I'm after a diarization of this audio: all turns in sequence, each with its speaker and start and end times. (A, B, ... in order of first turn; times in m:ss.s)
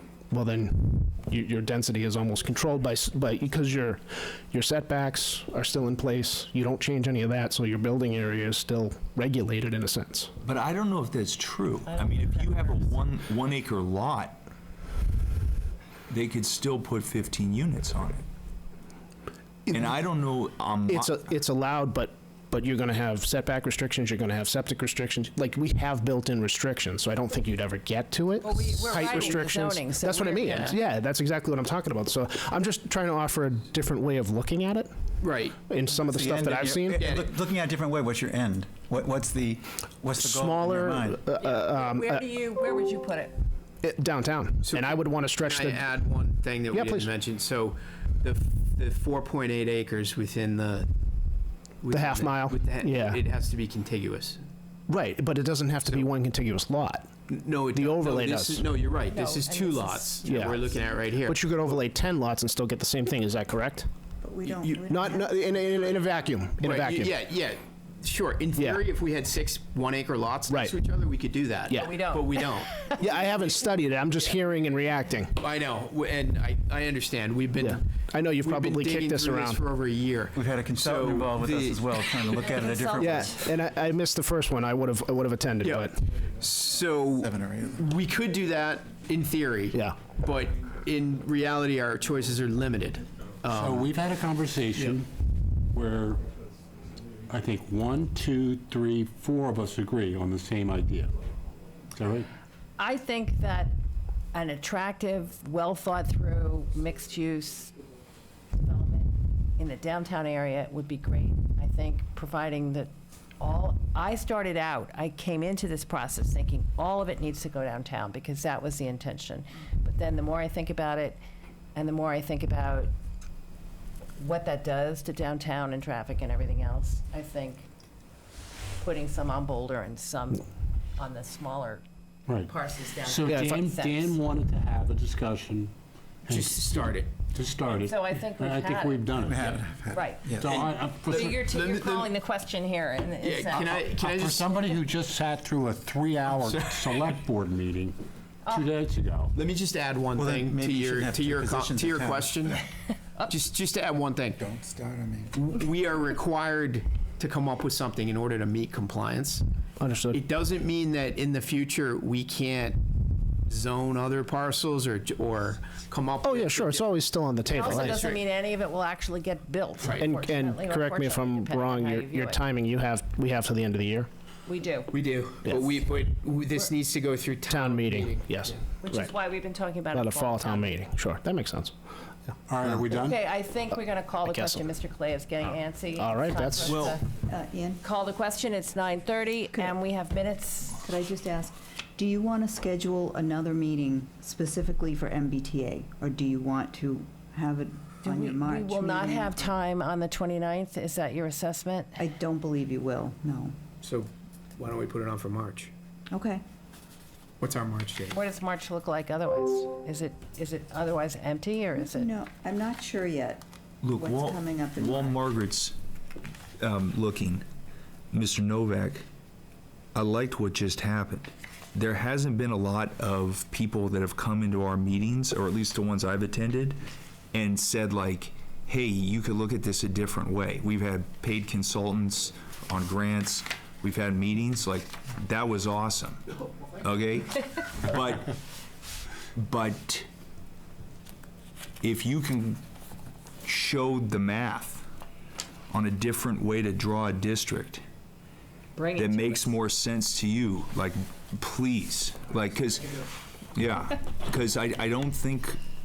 0:00.3-0:10.3 A
0:10.4-0:14.4 B
0:11.9-0:12.8 C
0:16.1-0:18.2 B
0:19.7-0:19.9 A
0:19.7-0:21.2 B
0:20.9-0:34.9 A
0:28.4-0:30.8 C
0:35.2-0:35.6 D
0:35.7-0:37.1 A
0:35.9-0:41.2 E
0:36.9-0:37.4 D
0:40.2-0:42.2 A
0:41.4-0:43.4 C
0:43.8-0:45.9 A
0:44.6-0:50.9 D
0:46.7-0:47.1 A
0:51.8-0:54.4 D
0:51.9-0:53.2 A
0:54.9-0:57.1 A
0:57.3-1:01.4 D
0:57.7-0:58.6 A
0:58.9-1:00.9 C
1:00.2-1:00.6 A
1:01.2-1:03.9 A
1:04.2-1:05.6 F
1:04.5-1:04.8 D
1:04.8-1:07.1 A
1:06.6-1:13.2 D
1:08.6-1:08.8 A
1:10.5-1:10.7 A
1:11.7-1:12.0 A
1:11.7-1:13.0 C
1:13.0-1:15.4 A
1:15.4-1:22.6 D
1:17.6-1:19.6 A
1:20.3-1:23.3 E
1:22.2-1:23.5 C
1:23.0-1:26.0 A
1:25.6-1:33.9 D
1:26.0-1:29.3 E
1:29.7-1:30.0 A
1:31.3-1:33.5 E
1:33.5-1:35.1 G
1:35.7-1:36.2 G
1:36.2-1:37.3 E
1:37.3-1:41.2 G
1:41.9-1:42.3 G
1:42.8-1:43.8 C
1:44.3-1:47.8 C
1:48.6-2:01.2 C
2:01.7-2:02.9 C
2:04.2-2:07.6 C
2:08.8-2:10.5 C
2:11.0-2:11.8 C
2:12.3-2:15.7 G
2:12.5-2:14.2 C
2:13.3-2:13.5 A
2:16.2-2:16.8 G
2:16.3-2:17.1 D
2:17.3-2:19.7 G
2:17.8-2:23.8 C
2:19.2-2:20.6 E
2:20.3-2:21.4 G
2:20.5-2:22.1 D
2:23.2-2:24.6 D
2:23.5-2:29.3 G
2:26.3-2:27.1 D
2:29.3-2:32.6 D
2:30.1-2:32.4 E
2:33.3-2:34.4 D
2:34.4-2:35.3 E
2:35.3-2:39.4 D
2:39.8-2:40.2 A
2:40.1-2:42.8 D
2:43.5-2:46.9 D
2:46.2-2:48.0 A
2:47.5-2:52.4 C
2:47.6-2:48.2 D
2:49.8-2:50.1 D
2:49.9-2:54.1 A
2:54.4-2:55.0 C
2:54.9-2:58.6 D
2:55.4-2:55.7 A
2:57.5-2:59.1 A
2:58.8-3:00.8 C
2:59.9-3:01.7 A
3:02.5-3:03.2 G
3:02.9-3:07.1 C
3:04.2-3:04.7 A
3:05.9-3:06.8 A
3:06.6-3:07.0 B
3:07.3-3:07.8 F
3:07.8-3:10.8 C
3:10.8-3:19.5 F
3:18.0-3:22.0 C
3:22.0-3:23.6 F
3:23.8-3:25.7 D
3:26.1-3:26.4 F
3:27.4-3:28.2 D
3:28.1-3:32.1 C
3:31.8-3:33.4 F
3:33.8-3:35.8 B
3:33.9-3:35.2 F
3:36.6-3:37.4 B
3:38.1-3:39.0 B
3:39.9-3:46.8 B
3:47.3-3:58.3 B
3:59.4-4:00.1 B
4:01.8-4:02.6 B
4:03.4-4:04.8 B
4:05.7-4:07.8 B
4:08.8-4:09.5 C
4:09.0-4:15.6 B